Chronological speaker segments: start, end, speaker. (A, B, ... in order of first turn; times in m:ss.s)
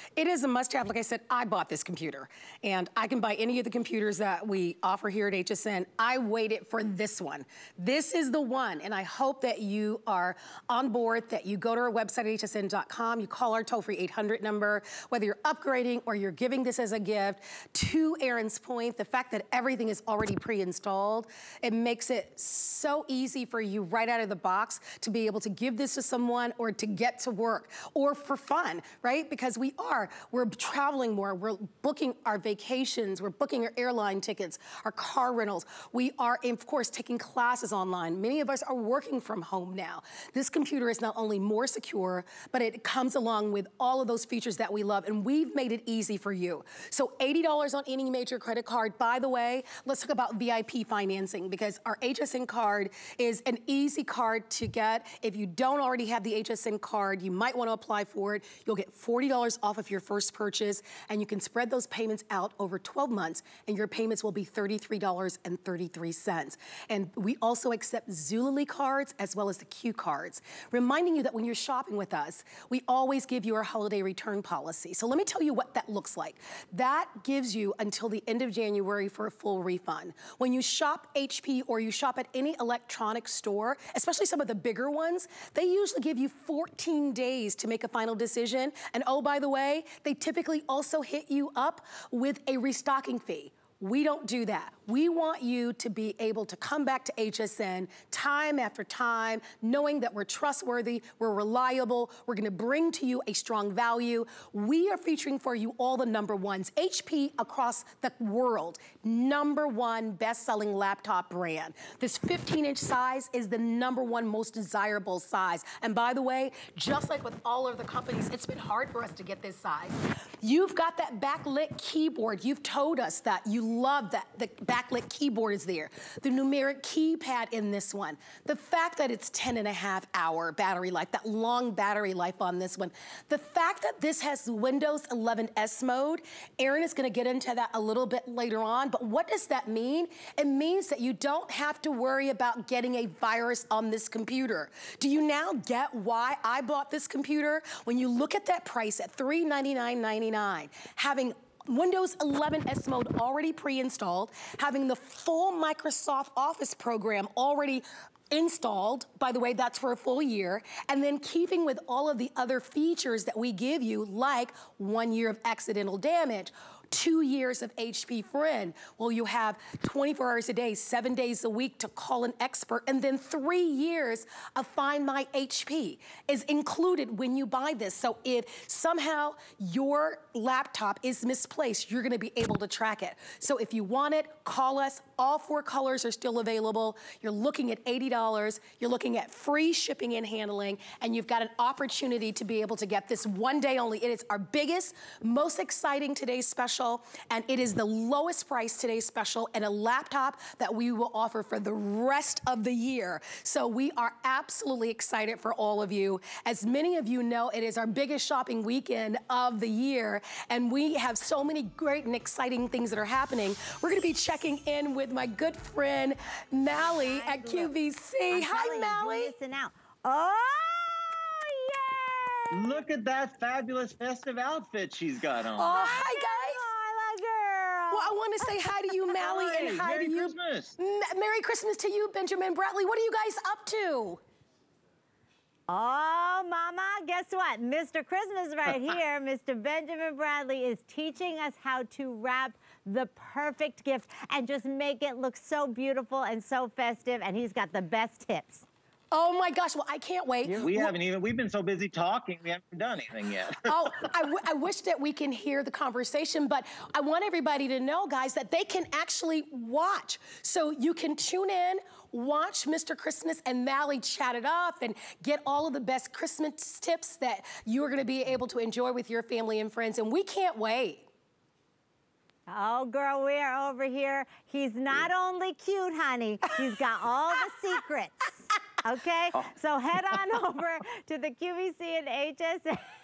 0:00.2-3:39.3 A
3:36.8-3:37.7 B
3:38.3-3:42.8 B
3:42.5-3:46.0 C
3:45.6-3:46.6 A
3:45.7-3:48.5 B
3:47.9-3:54.2 A
3:49.2-3:50.8 C
3:55.7-4:08.6 B
4:09.1-4:11.0 A
4:10.4-4:14.1 C
4:13.6-4:31.1 A
4:32.5-4:42.9 B